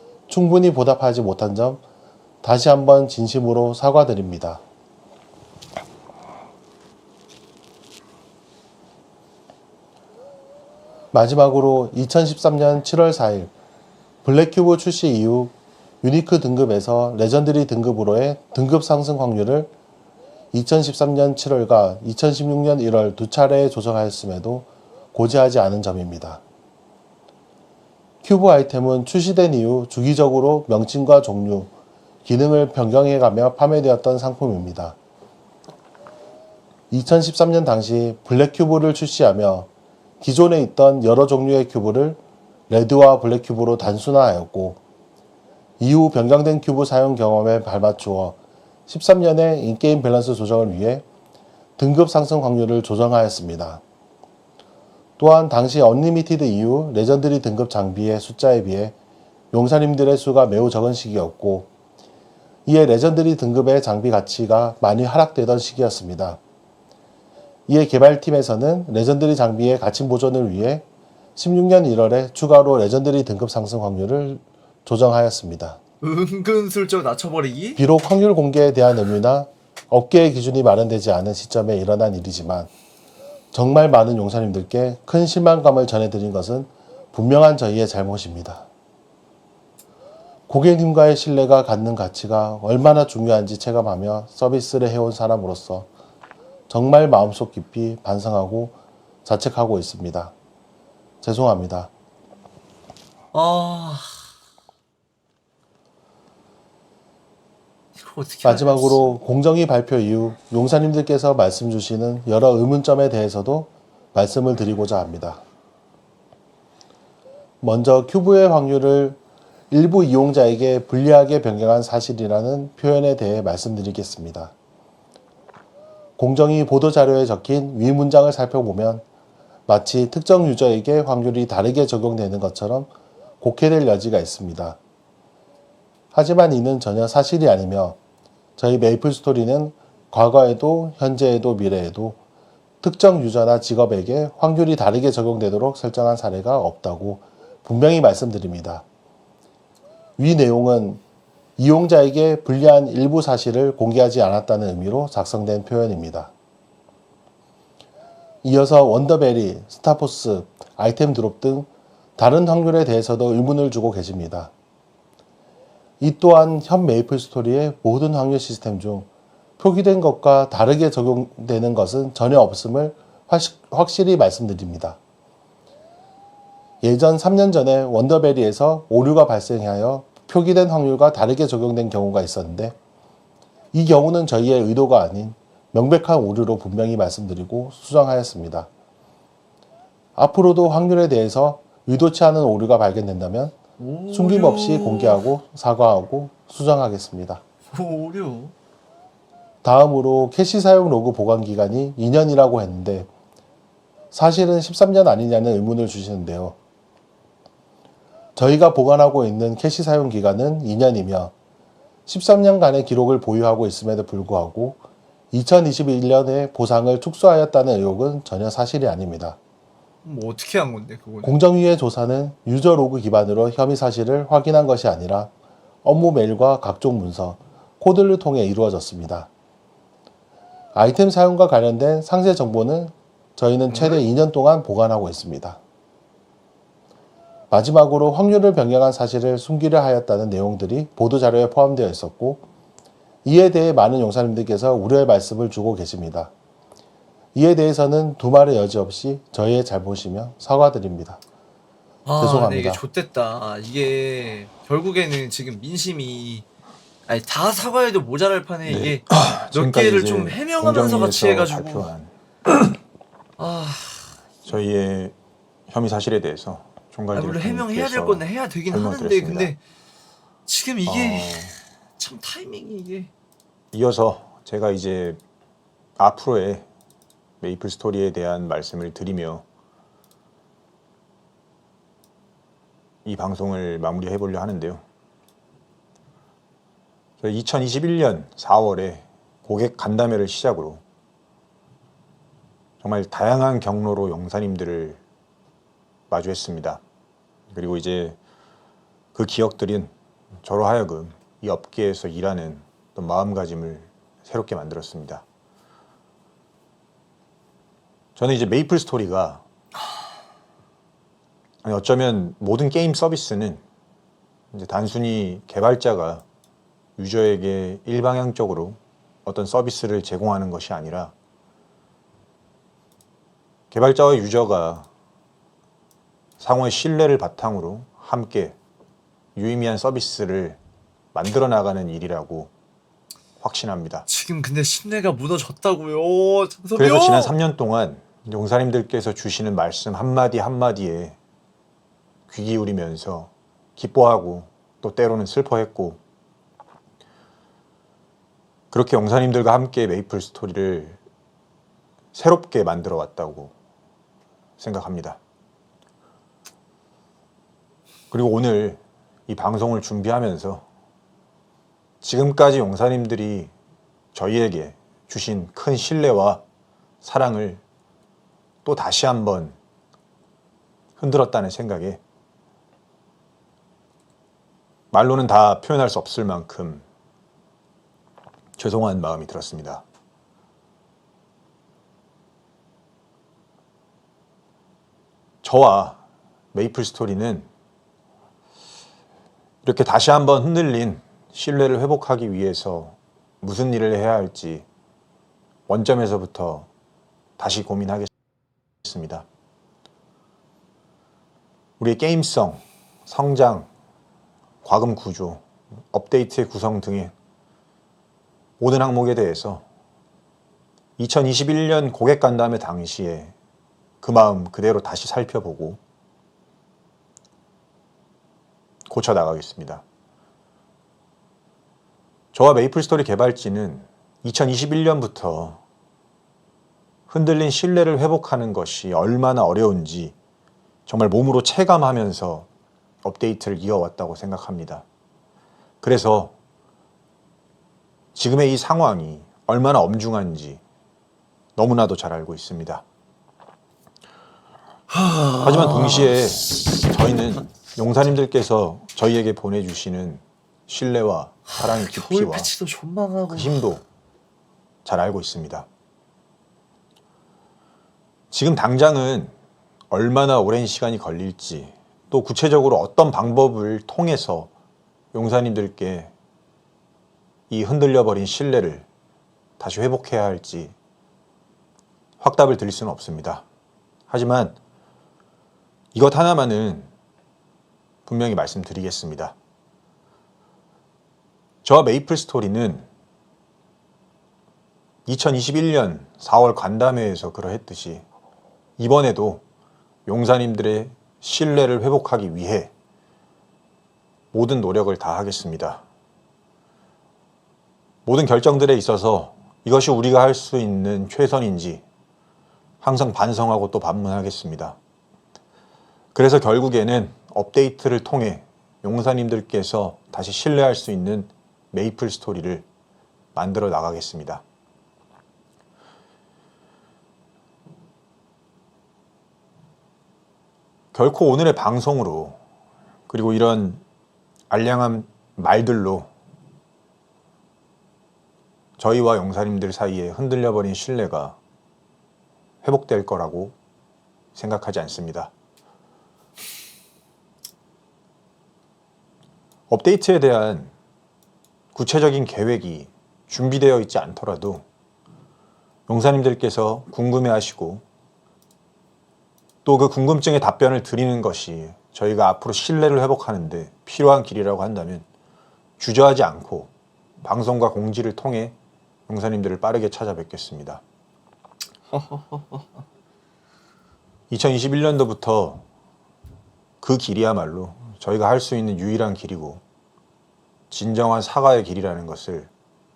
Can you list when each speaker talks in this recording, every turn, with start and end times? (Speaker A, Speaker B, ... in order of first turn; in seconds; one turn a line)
Speaker A: 0.3-1.8
Speaker A: 2.4-4.6
Speaker A: 11.1-13.5
Speaker A: 14.2-19.7
Speaker A: 20.5-26.4
Speaker A: 28.2-31.7
Speaker A: 32.2-35.0
Speaker A: 36.9-39.7
Speaker A: 40.2-44.8
Speaker A: 45.8-51.0
Speaker A: 51.8-53.8
Speaker A: 55.2-59.0
Speaker A: 59.5-61.7
Speaker A: 62.7-66.4
Speaker A: 67.7-70.8
Speaker A: 71.4-75.8
Speaker B: 76.0-77.8
Speaker A: 77.8-82.7
Speaker A: 83.5-88.7
Speaker A: 90.5-95.9
Speaker A: 96.7-100.3
Speaker A: 101.2-101.9
Speaker B: 103.3-104.2
Speaker B: 108.0-109.2
Speaker A: 108.4-115.4
Speaker A: 117.6-119.2
Speaker A: 119.7-124.5
Speaker A: 126.2-129.0
Speaker A: 129.7-132.9
Speaker A: 133.4-134.8
Speaker A: 136.1-138.0
Speaker A: 138.6-142.2
Speaker A: 142.8-148.8
Speaker A: 150.2-151.0
Speaker A: 151.6-156.3
Speaker A: 158.4-164.5
Speaker A: 166.0-169.1
Speaker A: 169.6-175.0
Speaker A: 176.8-182.8
Speaker A: 183.7-188.7
Speaker A: 190.2-193.6
Speaker B: 193.8-195.2
Speaker A: 194.1-197.4
Speaker B: 197.7-198.5
Speaker A: 199.6-203.1
Speaker A: 204.1-206.6
Speaker A: 208.4-211.3
Speaker A: 212.1-214.8
Speaker A: 215.3-219.4
Speaker B: 220.0-221.4
Speaker A: 221.2-225.3
Speaker A: 225.8-229.3
Speaker A: 230.8-235.6
Speaker B: 233.7-234.0
Speaker A: 237.5-242.4
Speaker A: 243.2-246.3
Speaker A: 247.3-251.2
Speaker B: 252.1-256.4
Speaker A: 252.2-252.8
Speaker B: 257.1-261.9
Speaker C: 258.7-262.1
Speaker B: 263.4-264.2
Speaker C: 264.4-265.1
Speaker C: 265.7-269.5
Speaker B: 267.1-269.6
Speaker B: 270.5-273.1
Speaker C: 270.9-271.6
Speaker C: 273.7-275.2
Speaker C: 276.0-276.7
Speaker C: 277.4-279.4
Speaker C: 283.1-284.8
Speaker C: 287.2-290.8
Speaker C: 292.8-295.0
Speaker C: 296.1-296.8
Speaker C: 297.5-298.2
Speaker C: 299.1-305.2
Speaker C: 308.2-309.4
Speaker C: 311.6-313.6
Speaker C: 314.5-316.2
Speaker C: 317.0-321.1
Speaker C: 323.7-324.9
Speaker C: 326.4-328.6
Speaker C: 329.4-330.6
Speaker C: 331.1-332.5
Speaker C: 333.4-334.1
Speaker B: 334.1-337.4
Speaker C: 336.8-341.2
Speaker C: 342.3-346.0
Speaker C: 348.7-351.0
Speaker C: 352.1-353.5
Speaker C: 354.6-355.2
Speaker C: 358.1-360.6
Speaker C: 362.0-363.5
Speaker C: 364.1-366.4
Speaker C: 367.0-367.6
Speaker C: 368.6-369.6
Speaker C: 371.0-372.0
Speaker C: 374.9-376.8
Speaker C: 378.6-379.8
Speaker C: 385.4-386.0
Speaker C: 386.5-387.5
Speaker C: 389.6-394.7
Speaker C: 395.7-396.7
Speaker C: 397.4-398.1
Speaker C: 398.8-399.3
Speaker C: 401.8-403.7
Speaker C: 404.6-407.1
Speaker C: 408.6-409.6
Speaker C: 411.0-413.3
Speaker C: 414.0-415.8
Speaker C: 418.9-419.8
Speaker C: 422.3-425.6
Speaker C: 427.1-430.1
Speaker C: 430.9-432.5
Speaker C: 433.0-434.9
Speaker C: 435.8-436.4
Speaker C: 438.1-440.6
Speaker C: 441.6-442.8
Speaker B: 444.9-446.8
Speaker C: 445.4-452.5
Speaker B: 451.5-453.6
Speaker C: 453.3-453.8
Speaker C: 454.9-455.7
Speaker C: 458.3-459.3
Speaker C: 459.9-464.5
Speaker C: 465.1-466.1
Speaker C: 467.5-468.9
Speaker C: 469.6-470.7
Speaker C: 472.2-473.4
Speaker C: 474.1-474.6
Speaker C: 475.9-476.9
Speaker C: 478.1-479.4
Speaker C: 481.6-482.9
Speaker C: 485.1-488.1
Speaker C: 488.8-489.4
Speaker C: 490.1-492.7
Speaker C: 494.3-495.8
Speaker C: 498.1-501.8
Speaker C: 502.8-504.8
Speaker C: 506.1-512.7
Speaker C: 513.4-514.4
Speaker C: 520.9-522.4
Speaker C: 523.1-523.8
Speaker C: 524.5-526.1
Speaker C: 528.8-531.4
Speaker C: 532.6-533.6
Speaker C: 534.4-535.3
Speaker C: 539.7-540.7
Speaker C: 541.7-544.6
Speaker C: 545.9-547.8
Speaker C: 549.6-555.1
Speaker C: 555.8-556.7
Speaker C: 557.2-558.5
Speaker C: 559.1-560.8
Speaker B: 561.9-562.6
Speaker C: 564.3-565.6
Speaker C: 566.8-569.6
Speaker C: 570.7-572.5